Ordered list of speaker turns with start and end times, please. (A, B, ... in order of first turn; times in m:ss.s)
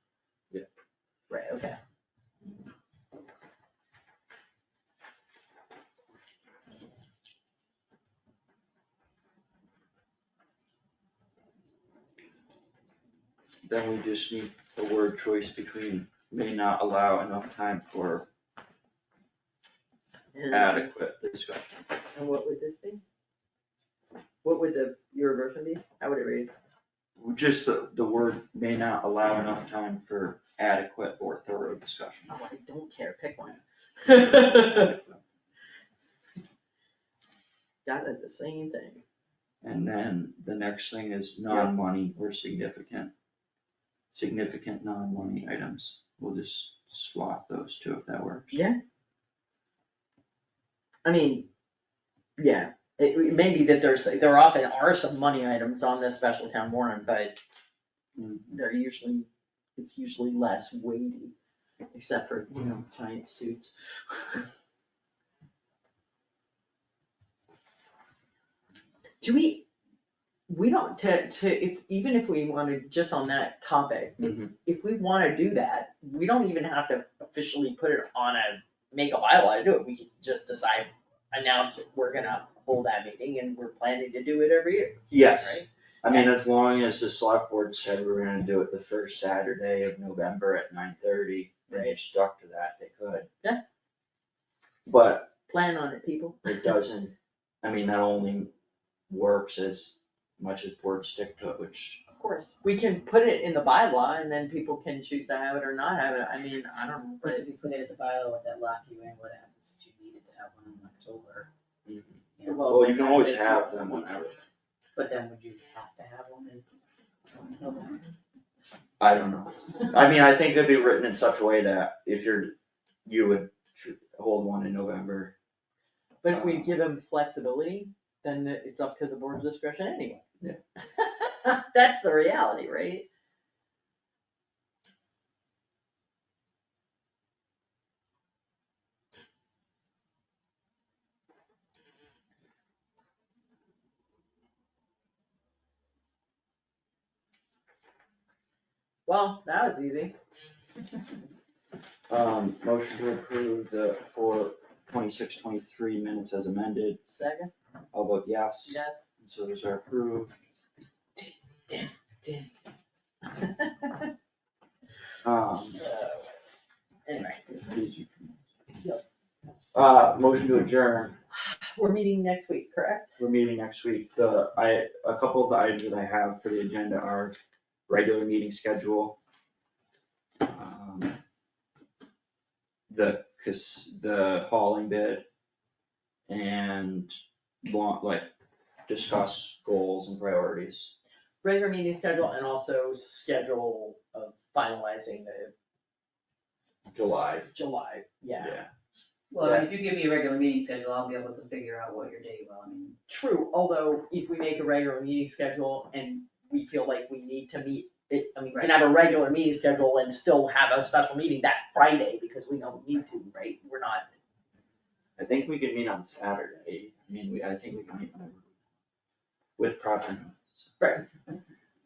0:01.3-0:01.8 A
0:13.6-0:18.3 B
0:20.3-0:21.2 A
0:20.5-0:21.8 B
0:22.1-0:23.0 A
0:24.4-0:26.5 A
0:27.2-0:32.3 B
0:32.3-0:35.0 A
0:34.6-0:35.1 B
0:37.8-0:39.0 A
0:39.6-0:43.1 B
0:44.1-0:48.6 B
0:48.5-0:48.8 A
0:51.0-0:51.5 A
0:52.4-0:57.4 A
0:58.2-0:58.6 B
0:58.5-1:01.3 A
1:01.9-1:04.5 A
1:09.2-1:09.7 A
1:10.5-1:26.3 A
1:14.2-1:14.5 B
1:25.1-1:33.3 B
1:31.7-1:32.0 A
1:34.9-1:35.3 B
1:35.5-1:36.6 A
1:36.4-1:38.5 B
1:39.1-1:42.0 B
1:42.1-1:47.4 A
1:47.2-1:51.5 C
1:51.9-1:54.4 B
1:52.4-1:52.7 C
1:52.4-1:54.1 A
1:55.0-1:56.6 C
1:57.3-1:58.0 C
1:59.0-2:02.5 B
2:03.0-2:05.3 B
2:06.2-2:10.3 A
2:06.3-2:06.8 B
2:10.8-2:13.1 A
2:29.1-2:30.2 A
2:32.1-2:37.0 B
2:37.0-2:37.5 A
2:37.9-2:40.4 B
2:38.7-2:39.1 A
2:41.2-2:42.5 A
2:43.3-2:44.1 A
2:45.2-2:45.8 B
2:45.8-2:46.4 A
2:47.1-2:47.4 A
2:47.2-2:48.4 B
2:49.7-2:51.2 B
2:51.3-2:53.1 A
2:53.2-2:57.4 B
2:57.9-2:59.2 B
3:00.4-3:01.2 B
3:02.9-3:05.2 B
3:06.3-3:08.3 B
3:08.9-3:10.9 B
3:11.4-3:15.5 A
3:16.9-3:17.5 B
3:17.5-3:18.6 A
3:18.4-3:18.7 B
3:19.3-3:23.0 C
3:19.4-3:19.7 B
3:23.1-3:34.0 A
3:35.2-3:38.5 B
3:39.6-3:40.7 B
3:40.8-3:41.0 A